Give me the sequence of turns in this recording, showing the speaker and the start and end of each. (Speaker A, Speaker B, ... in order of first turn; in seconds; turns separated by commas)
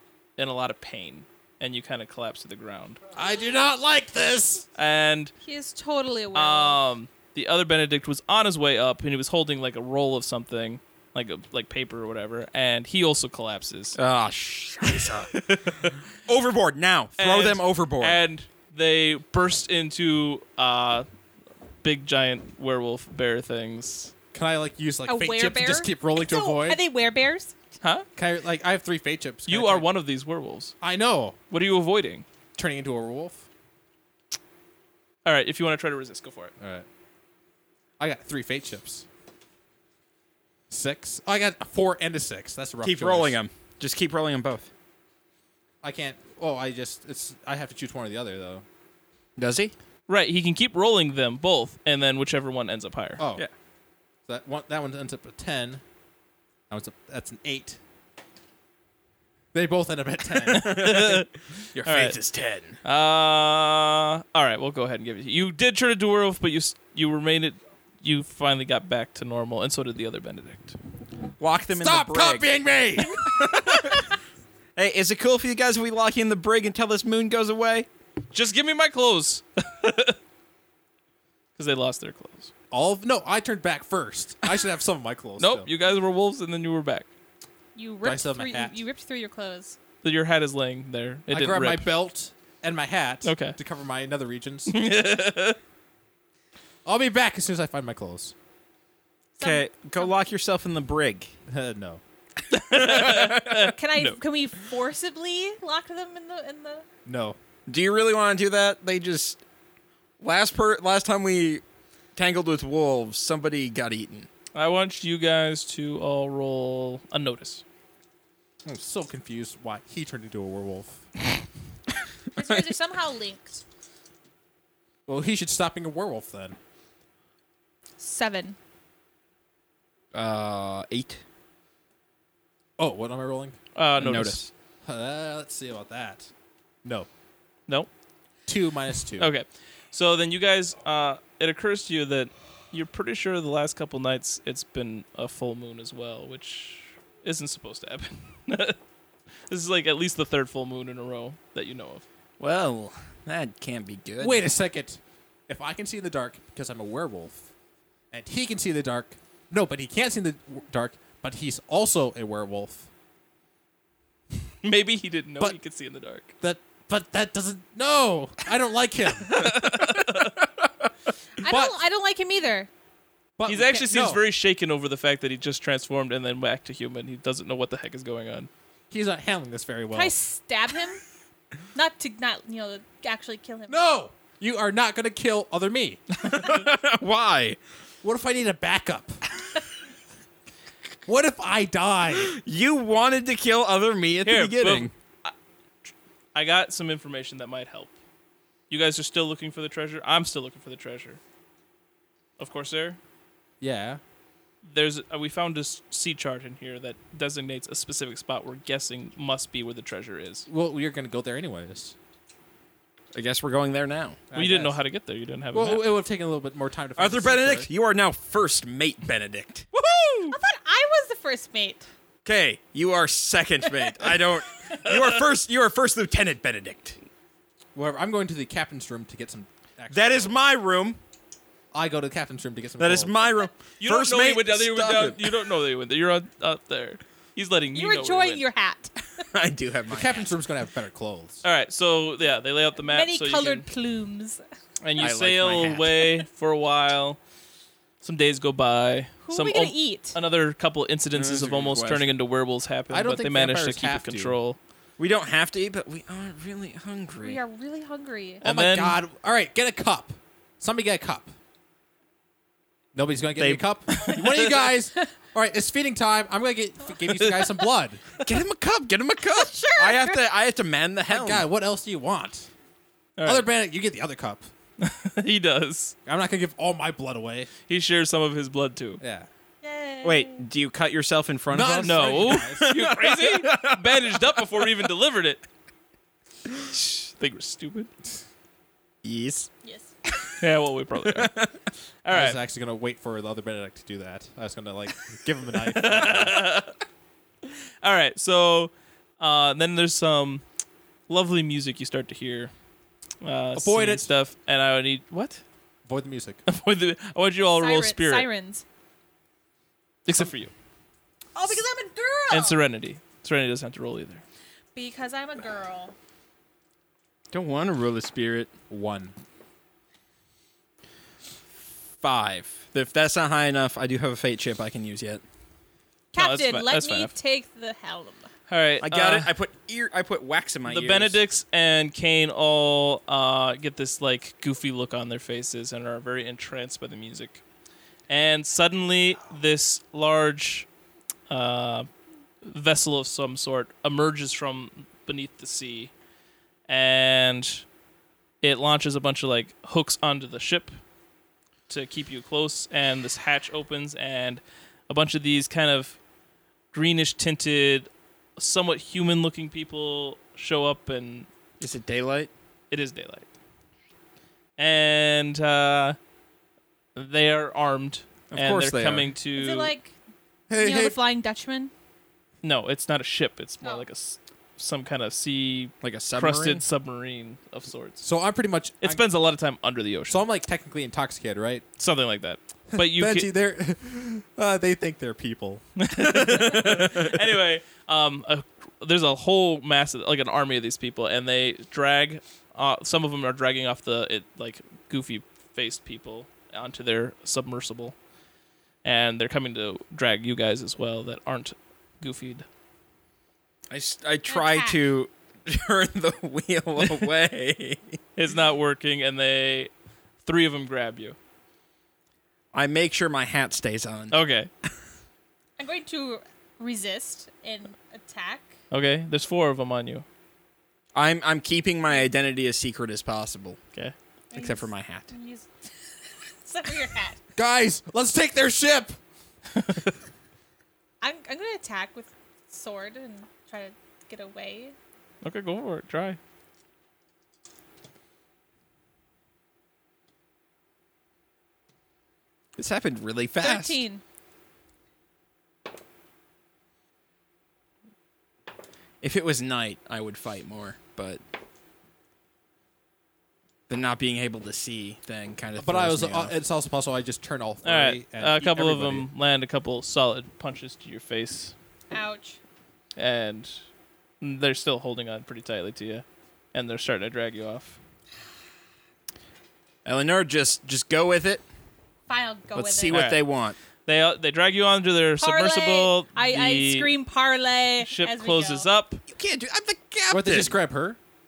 Speaker A: 0.4-3.0, Speaker B: 3.1-4.7, Speaker A: 4.8-5.3, Speaker C: 5.4-6.8, Speaker A: 6.3-14.0, Speaker D: 13.9-18.2, Speaker A: 17.2-21.1, Speaker A: 21.8-24.1, Speaker B: 24.3-26.8, Speaker C: 25.0-27.5, Speaker A: 27.8-28.1, Speaker B: 28.1-29.9, Speaker A: 29.5-30.7, Speaker B: 30.8-31.4, Speaker A: 31.5-32.2, Speaker B: 32.5-33.4, Speaker A: 35.2-36.5, Speaker B: 36.6-36.8, Speaker B: 38.0-39.0, Speaker B: 40.7-43.4, Speaker D: 42.8-44.7, Speaker B: 45.8-48.6, Speaker D: 49.4-49.7, Speaker A: 50.1-53.2, Speaker B: 53.2-53.4, Speaker B: 54.3-55.8, Speaker B: 56.7-57.8, Speaker B: 59.5-60.9, Speaker D: 60.5-62.8, Speaker A: 60.5-62.2, Speaker A: 62.8-70.8, Speaker D: 71.4-72.5, Speaker B: 71.8-73.5, Speaker D: 73.1-74.0, Speaker D: 74.8-77.9, Speaker A: 78.3-80.2, Speaker A: 81.5-82.5, Speaker B: 82.7-85.7, Speaker A: 85.4-87.1, Speaker C: 87.7-89.8, Speaker B: 88.0-88.8, Speaker A: 90.0-91.9, Speaker B: 91.3-94.7, Speaker A: 93.2-93.6, Speaker A: 94.7-95.6, Speaker B: 96.8-98.3, Speaker D: 99.4-101.3, Speaker C: 99.4-100.1, Speaker B: 101.5-102.0, Speaker A: 102.5-104.2, Speaker D: 102.8-103.7, Speaker C: 103.5-106.8, Speaker B: 107.0-107.4, Speaker D: 107.7-109.4, Speaker D: 110.2-111.6, Speaker D: 112.2-114.3, Speaker A: 114.5-117.6, Speaker B: 118.6-121.0, Speaker C: 122.3-123.6, Speaker D: 122.4-122.7, Speaker B: 125.0-126.6, Speaker C: 128.0-128.6, Speaker D: 130.1-131.2, Speaker B: 132.8-133.6, Speaker A: 133.7-134.4, Speaker D: 133.9-134.5, Speaker B: 134.8-136.3, Speaker B: 138.4-139.3, Speaker A: 139.2-148.8, Speaker A: 149.5-152.0, Speaker D: 152.4-154.5, Speaker B: 154.2-157.5, Speaker B: 158.1-162.9, Speaker A: 164.6-166.3, Speaker B: 166.4-169.5, Speaker A: 169.2-170.3, Speaker D: 169.8-170.1, Speaker C: 171.4-172.7, Speaker B: 171.4-171.8, Speaker B: 173.4-174.2, Speaker A: 173.5-178.5, Speaker B: 178.9-180.2, Speaker C: 179.9-181.0, Speaker C: 181.7-183.9, Speaker B: 183.7-186.2, Speaker D: 186.2-187.6, Speaker B: 188.0-189.2, Speaker B: 191.1-192.4, Speaker D: 192.2-194.9, Speaker A: 194.2-195.3, Speaker A: 196.3-197.9, Speaker A: 198.7-201.2, Speaker A: 202.4-203.0, Speaker B: 203.6-204.0, Speaker A: 204.6-210.5, Speaker B: 210.5-211.9, Speaker D: 213.1-214.2, Speaker B: 214.3-214.8, Speaker A: 214.3-216.0, Speaker B: 215.5-217.7, Speaker D: 217.0-219.7, Speaker A: 219.7-220.4, Speaker C: 220.3-221.8, Speaker D: 222.2-227.0, Speaker A: 224.7-225.2, Speaker B: 227.7-230.4, Speaker D: 229.9-231.0, Speaker B: 231.7-233.1, Speaker D: 232.8-235.3, Speaker A: 233.8-238.4, Speaker C: 237.7-239.2, Speaker D: 239.2-240.3, Speaker B: 239.9-241.4, Speaker A: 241.4-243.7, Speaker C: 242.8-244.4, Speaker A: 244.8-247.2, Speaker D: 245.0-246.1, Speaker A: 248.0-254.6, Speaker C: 249.2-250.2, Speaker D: 251.1-252.1, Speaker B: 252.9-254.4, Speaker D: 255.0-257.4, Speaker C: 257.2-258.4, Speaker A: 258.4-259.0, Speaker B: 258.4-261.3, Speaker B: 262.9-268.0, Speaker D: 263.4-263.6, Speaker A: 263.9-264.3, Speaker D: 268.2-271.4, Speaker C: 269.2-270.2, Speaker B: 271.1-272.5, Speaker A: 273.2-273.5, Speaker B: 273.2-274.5, Speaker A: 274.8-275.9, Speaker B: 276.0-277.5, Speaker A: 277.7-279.0, Speaker B: 279.0-279.3, Speaker C: 279.6-280.4, Speaker D: 280.0-284.3, Speaker B: 281.5-282.7, Speaker A: 281.8-285.4, Speaker A: 286.7-287.9, Speaker D: 289.0-289.5, Speaker C: 289.6-289.9, Speaker D: 290.1-290.3, Speaker A: 290.4-291.4, Speaker D: 291.1-291.5, Speaker A: 292.0-292.4, Speaker B: 292.1-296.5, Speaker A: 295.7-296.7, Speaker A: 297.8-300.4, Speaker A: 301.1-302.5, Speaker A: 303.2-305.4, Speaker B: 303.5-304.1, Speaker B: 305.9-306.4, Speaker A: 306.4-308.3, Speaker C: 307.6-308.6, Speaker A: 310.1-310.5, Speaker C: 311.3-312.6, Speaker A: 312.3-314.2, Speaker C: 314.7-315.9, Speaker D: 317.3-318.5, Speaker B: 318.7-319.1, Speaker D: 322.0-325.2, Speaker C: 326.1-328.3, Speaker A: 326.1-327.1, Speaker A: 328.5-329.3, Speaker D: 328.8-331.2, Speaker A: 330.6-337.4, Speaker A: 338.1-340.7, Speaker A: 341.3-341.9, Speaker A: 342.4-345.9, Speaker A: 346.7-347.6, Speaker A: 348.4-350.7, Speaker A: 351.7-356.0, Speaker A: 356.7-361.3, Speaker D: 361.6-362.3, Speaker A: 362.7-363.3, Speaker A: 364.6-366.0, Speaker A: 366.9-369.7, Speaker D: 368.3-369.1, Speaker C: 369.3-369.9, Speaker B: 370.5-370.9, Speaker C: 370.5-371.7, Speaker A: 372.4-378.0, Speaker D: 375.8-376.6, Speaker B: 378.0-379.0, Speaker A: 378.8-380.3, Speaker B: 380.1-381.6, Speaker A: 381.8-383.3, Speaker B: 382.7-385.8, Speaker A: 385.8-397.9, Speaker D: 386.0-387.1, Speaker A: 398.8-402.4, Speaker D: 403.7-408.0, Speaker C: 404.3-404.8, Speaker A: 408.1-409.7, Speaker A: 410.2-411.1, Speaker D: 412.5-414.1, Speaker A: 414.1-414.5, Speaker C: 415.6-418.5, Speaker A: 418.7-420.0, Speaker D: 420.9-423.6, Speaker C: 424.3-427.2, Speaker D: 424.3-425.1, Speaker B: 427.4-428.9, Speaker C: 431.0-434.7, Speaker A: 435.2-436.2, Speaker D: 442.6-443.8, Speaker C: 443.4-444.0, Speaker D: 449.0-451.2, Speaker D: 453.7-456.3, Speaker B: 455.6-459.1, Speaker A: 457.6-461.5, Speaker C: 461.9-462.4, Speaker A: 463.0-463.6, Speaker A: 464.2-467.8, Speaker D: 469.8-471.4, Speaker C: 472.1-473.0, Speaker D: 472.5-473.6, Speaker A: 472.9-473.2, Speaker A: 473.9-476.9, Speaker C: 475.2-478.7, Speaker A: 477.8-479.0, Speaker D: 479.1-480.6, Speaker B: 480.1-481.0